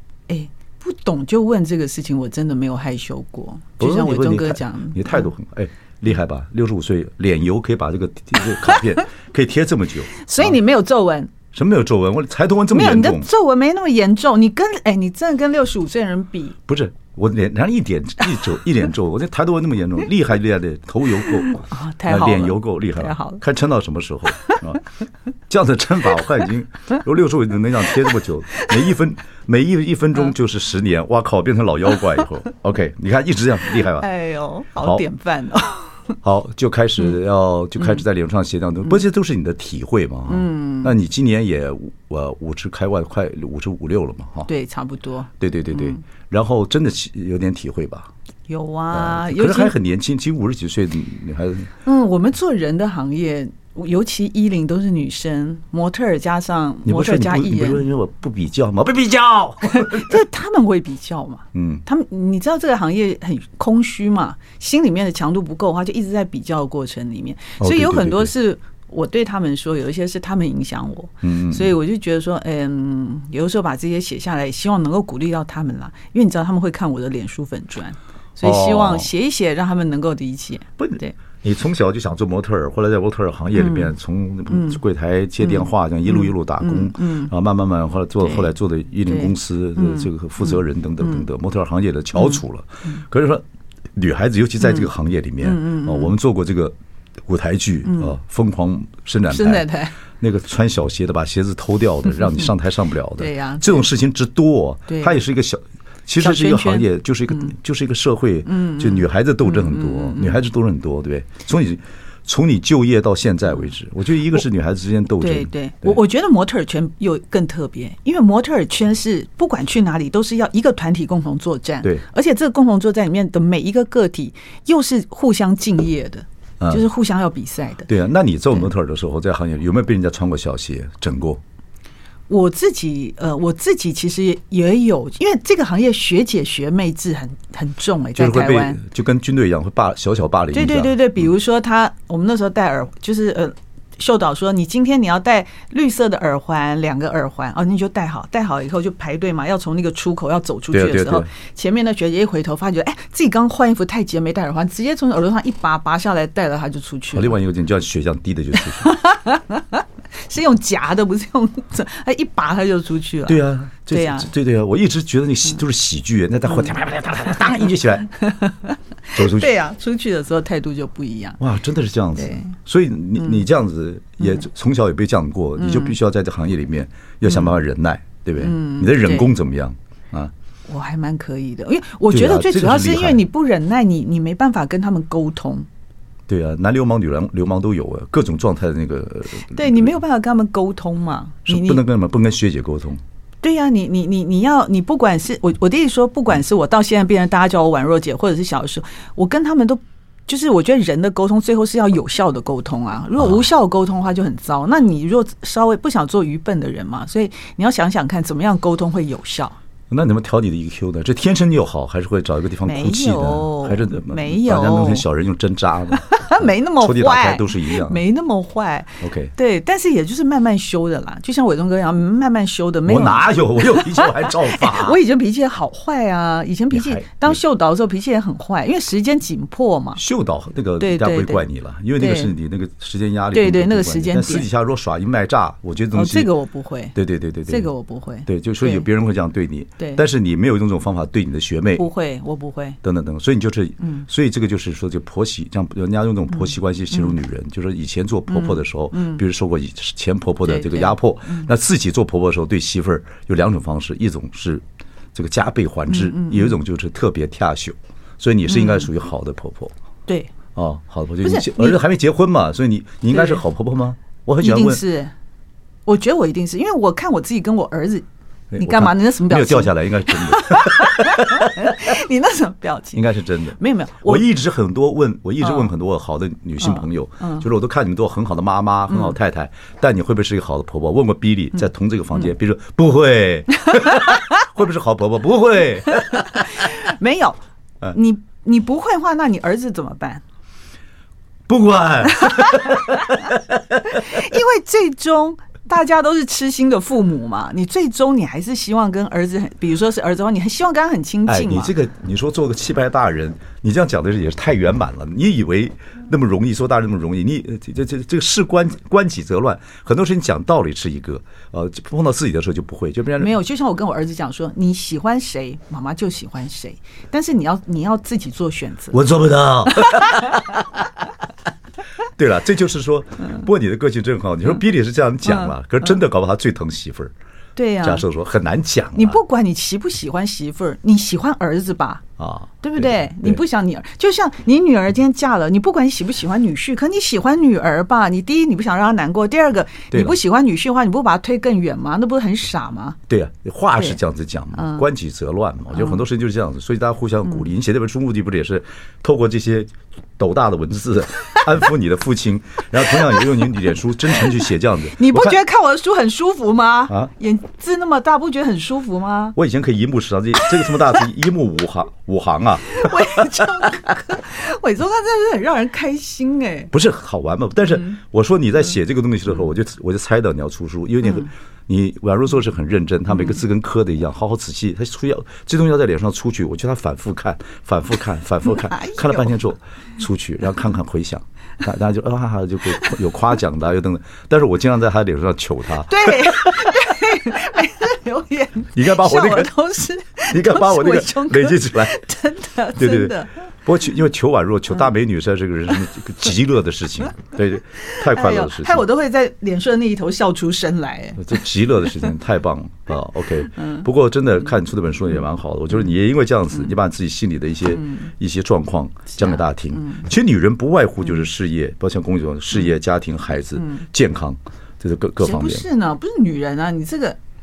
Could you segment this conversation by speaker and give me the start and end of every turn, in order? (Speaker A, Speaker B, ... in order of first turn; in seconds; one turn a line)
Speaker A: 0.3-5.3
Speaker B: 3.8-10.6
Speaker A: 10.2-11.3
Speaker B: 11.5-13.3
Speaker A: 12.7-16.6
Speaker B: 16.7-24.8
Speaker A: 21.5-23.4
Speaker B: 25.5-34.1
Speaker A: 34.0-36.1
Speaker B: 34.8-35.0
Speaker B: 36.2-44.5
Speaker A: 40.3-40.9
Speaker A: 44.5-46.0
Speaker B: 45.4-48.1
Speaker A: 48.5-49.7
Speaker B: 48.9-51.7
Speaker A: 51.8-57.8
Speaker B: 56.9-60.2
Speaker A: 59.6-81.2
Speaker B: 61.5-61.8
Speaker B: 67.6-68.3
Speaker B: 71.2-71.7
Speaker B: 78.4-79.1
Speaker B: 80.8-116.0
Speaker A: 83.6-83.9
Speaker A: 84.5-84.8
Speaker A: 86.1-87.3
Speaker A: 88.2-88.5
Speaker A: 89.1-90.1
Speaker A: 92.2-93.0
Speaker A: 95.4-96.1
Speaker A: 99.3-100.0
Speaker A: 103.2-103.9
Speaker A: 104.9-105.2
Speaker A: 106.2-107.5
Speaker A: 108.5-110.4
Speaker A: 115.2-127.9
Speaker B: 127.9-131.4
Speaker A: 132.3-138.8
Speaker B: 138.2-140.9
Speaker A: 140.5-157.3
Speaker B: 150.7-151.3
Speaker B: 157.1-158.9
Speaker A: 158.8-164.3
Speaker B: 163.3-168.1
Speaker A: 168.2-171.4
Speaker B: 169.1-169.5
Speaker B: 171.4-180.3
Speaker A: 172.2-172.6
Speaker A: 175.6-176.0
Speaker A: 178.4-179.3
Speaker A: 180.7-185.7
Speaker B: 182.1-183.2
Speaker B: 186.3-189.9
Speaker A: 189.5-191.8
Speaker B: 191.5-193.0
Speaker A: 193.4-209.6
Speaker B: 209.9-218.0
Speaker A: 212.7-215.1
Speaker A: 216.0-230.0
Speaker B: 219.0-219.3
Speaker B: 222.9-225.0
Speaker B: 226.7-227.4
Speaker B: 230.0-236.3
Speaker A: 230.8-231.4
Speaker A: 232.0-232.3
Speaker A: 233.3-234.5
Speaker A: 235.9-236.9
Speaker B: 236.9-237.7
Speaker A: 237.5-238.8
Speaker B: 238.3-241.9
Speaker A: 241.8-242.8
Speaker B: 242.8-259.7
Speaker A: 248.3-249.2
Speaker A: 250.4-251.5
Speaker A: 255.9-256.6
Speaker A: 258.5-258.9
Speaker A: 260.1-260.3
Speaker B: 260.6-264.8
Speaker A: 261.2-261.8
Speaker A: 263.1-263.4
Speaker A: 264.4-265.1
Speaker A: 265.9-268.1
Speaker B: 268.5-271.9
Speaker A: 268.6-273.0
Speaker B: 272.9-286.7
Speaker A: 273.6-274.3
Speaker A: 276.6-277.4
Speaker A: 286.0-290.2
Speaker B: 291.5-294.2
Speaker A: 292.1-293.1
Speaker A: 293.9-301.7
Speaker B: 301.3-313.3
Speaker A: 313.2-319.0
Speaker B: 318.9-320.9
Speaker A: 319.7-320.2
Speaker B: 322.0-327.1
Speaker A: 327.6-328.1
Speaker B: 327.8-329.2
Speaker A: 328.9-332.1
Speaker B: 332.2-333.4
Speaker A: 332.6-343.0
Speaker B: 339.9-340.2
Speaker B: 343.1-355.4
Speaker A: 344.6-344.9
Speaker A: 354.9-359.4
Speaker B: 359.4-363.7
Speaker A: 362.7-366.7
Speaker B: 366.7-386.9
Speaker A: 378.7-379.3
Speaker A: 385.9-393.3
Speaker B: 388.7-389.5
Speaker B: 390.3-392.0
Speaker B: 392.8-398.9
Speaker A: 397.9-401.4
Speaker B: 401.2-415.6
Speaker A: 407.8-408.1
Speaker A: 409.2-410.1
Speaker A: 413.6-413.8
Speaker A: 415.2-417.2